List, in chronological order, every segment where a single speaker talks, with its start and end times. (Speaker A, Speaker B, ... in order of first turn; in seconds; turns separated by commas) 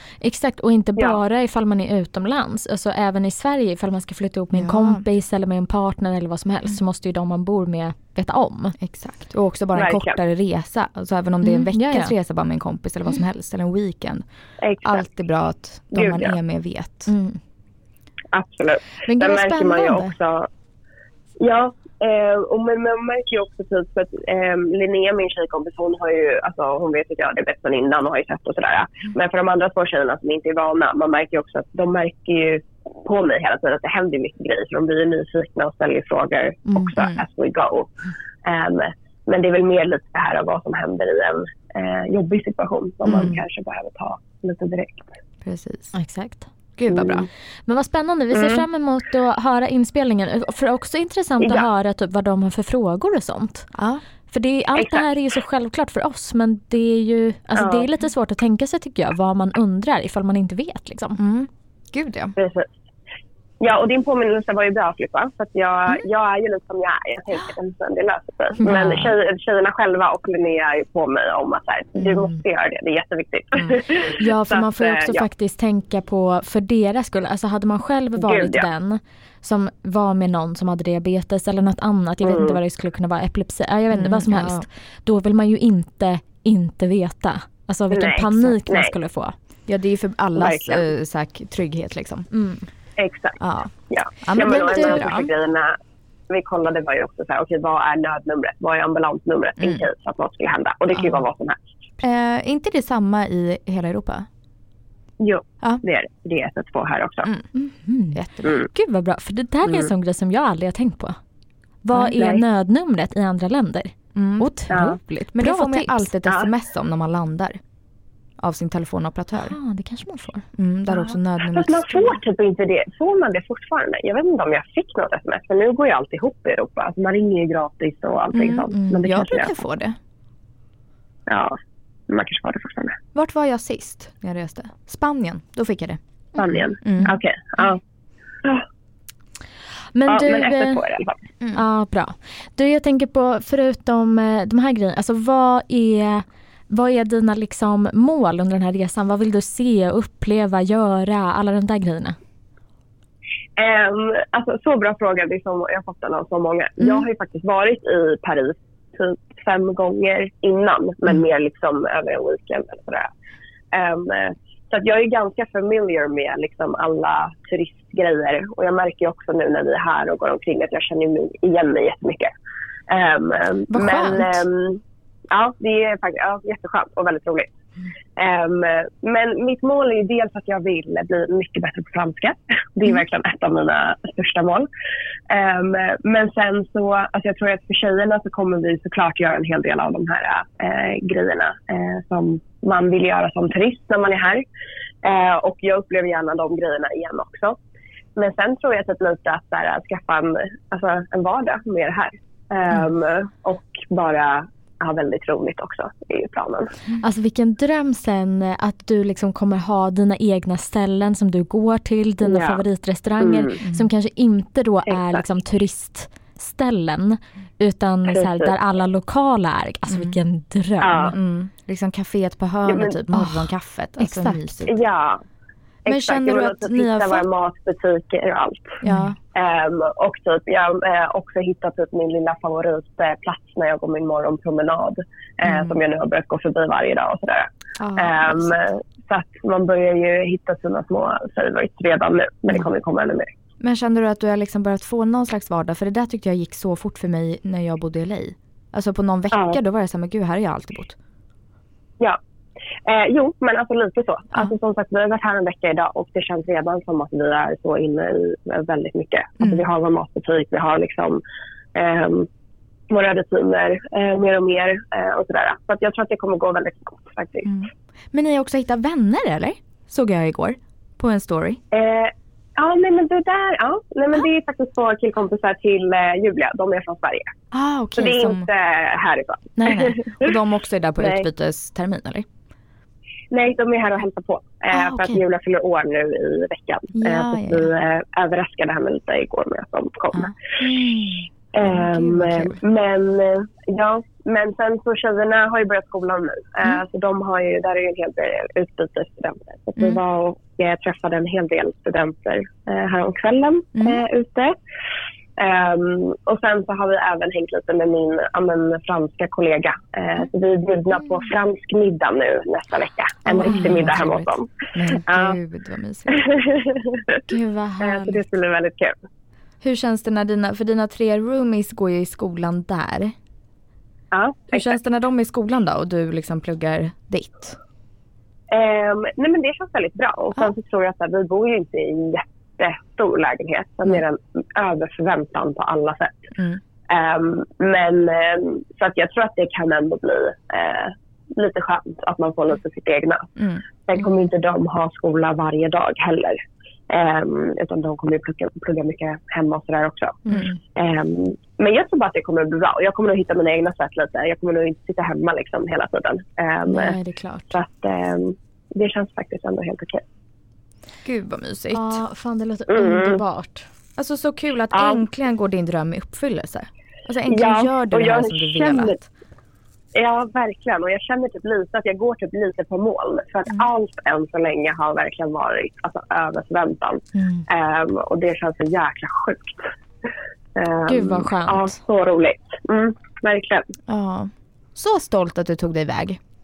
Speaker A: 0.2-8.8, Speaker B: 4.5-5.0, Speaker B: 8.8-14.2, Speaker C: 9.8-10.2, Speaker A: 11.4-12.1, Speaker C: 14.6-15.0, Speaker B: 14.8-17.1, Speaker C: 15.9-16.4, Speaker A: 17.1-17.4, Speaker C: 18.3-20.5, Speaker A: 19.0-20.1, Speaker C: 21.4-37.9, Speaker B: 36.9-37.2, Speaker C: 38.4-45.1, Speaker B: 43.1-43.4, Speaker B: 45.4-45.9, Speaker A: 45.9-46.5, Speaker B: 46.8-47.3, Speaker C: 46.9-47.2, Speaker A: 47.7-53.7, Speaker C: 48.3-48.6, Speaker B: 53.7-54.0, Speaker A: 54.3-61.2, Speaker C: 54.8-55.0, Speaker C: 57.6-57.8, Speaker B: 61.2-62.4, Speaker C: 62.4-62.7, Speaker C: 63.6-75.2, Speaker A: 68.6-69.1, Speaker A: 72.0-72.3, Speaker A: 74.1-89.3, Speaker C: 78.2-78.7, Speaker C: 82.2-82.6, Speaker B: 83.9-84.6, Speaker C: 87.9-88.9, Speaker B: 89.7-92.3, Speaker C: 90.3-90.8, Speaker A: 92.3-92.7, Speaker C: 93.0-95.8, Speaker B: 93.4-95.3, Speaker A: 94.3-95.0, Speaker C: 96.3-101.6, Speaker B: 102.0-104.3, Speaker C: 105.2-107.3, Speaker A: 107.5-111.2, Speaker B: 108.1-108.5, Speaker A: 111.8-116.1, Speaker B: 114.1-114.5, Speaker C: 114.7-115.0, Speaker B: 115.3-117.6, Speaker B: 118.4-119.5, Speaker A: 119.3-120.4, Speaker B: 120.5-122.2, Speaker C: 120.9-129.6, Speaker B: 128.3-130.0, Speaker C: 131.3-131.6, Speaker C: 132.1-133.0, Speaker B: 133.1-136.0, Speaker C: 136.4-137.8, Speaker B: 136.8-137.2, Speaker A: 139.9-140.8, Speaker C: 140.1-141.2, Speaker A: 141.5-152.2, Speaker C: 153.6-163.1, Speaker C: 163.7-172.3, Speaker C: 172.9-177.5, Speaker A: 173.7-174.4, Speaker C: 178.2-184.7, Speaker C: 185.3-194.4, Speaker C: 195.0-197.6, Speaker C: 198.2-206.7, Speaker A: 207.0-221.1, Speaker C: 212.2-212.6, Speaker C: 213.2-213.6, Speaker C: 214.9-215.2, Speaker C: 218.1-218.5, Speaker B: 219.9-220.2, Speaker C: 220.8-221.1, Speaker B: 221.1-224.8, Speaker C: 222.7-223.0, Speaker A: 223.1-224.4, Speaker C: 224.7-225.2, Speaker C: 225.8-228.8, Speaker B: 225.9-227.2, Speaker B: 228.8-229.2, Speaker C: 229.3-243.3, Speaker B: 235.4-235.8, Speaker B: 237.8-238.6, Speaker B: 243.6-250.9, Speaker C: 249.3-249.6, Speaker C: 252.8-261.2, Speaker C: 261.7-262.3, Speaker C: 262.9-267.5, Speaker B: 267.4-271.6, Speaker C: 271.7-277.3, Speaker B: 277.5-278.5, Speaker C: 277.9-280.4, Speaker B: 279.6-282.3, Speaker C: 283.3-290.4, Speaker B: 284.7-285.2, Speaker B: 286.9-287.7, Speaker B: 290.1-292.6, Speaker C: 291.5-304.6, Speaker B: 303.8-304.0, Speaker C: 305.4-315.4, Speaker B: 313.3-316.2, Speaker A: 313.3-313.8, Speaker C: 316.1-317.2, Speaker A: 317.3-318.2, Speaker C: 317.8-318.9, Speaker B: 319.6-323.1, Speaker C: 324.1-324.7, Speaker B: 324.5-327.6, Speaker C: 328.5-336.3, Speaker B: 336.4-336.6, Speaker C: 336.9-343.3, Speaker B: 343.4-343.6, Speaker C: 343.9-356.9, Speaker A: 350.2-350.6, Speaker A: 356.7-357.6, Speaker C: 357.5-360.0, Speaker B: 361.0-362.0, Speaker A: 361.7-363.7, Speaker C: 362.7-363.2, Speaker B: 364.0-369.1, Speaker C: 364.7-365.0, Speaker C: 367.3-369.0, Speaker C: 369.9-379.6, Speaker A: 377.1-377.4, Speaker C: 380.6-383.7, Speaker A: 380.9-381.8, Speaker B: 383.9-386.2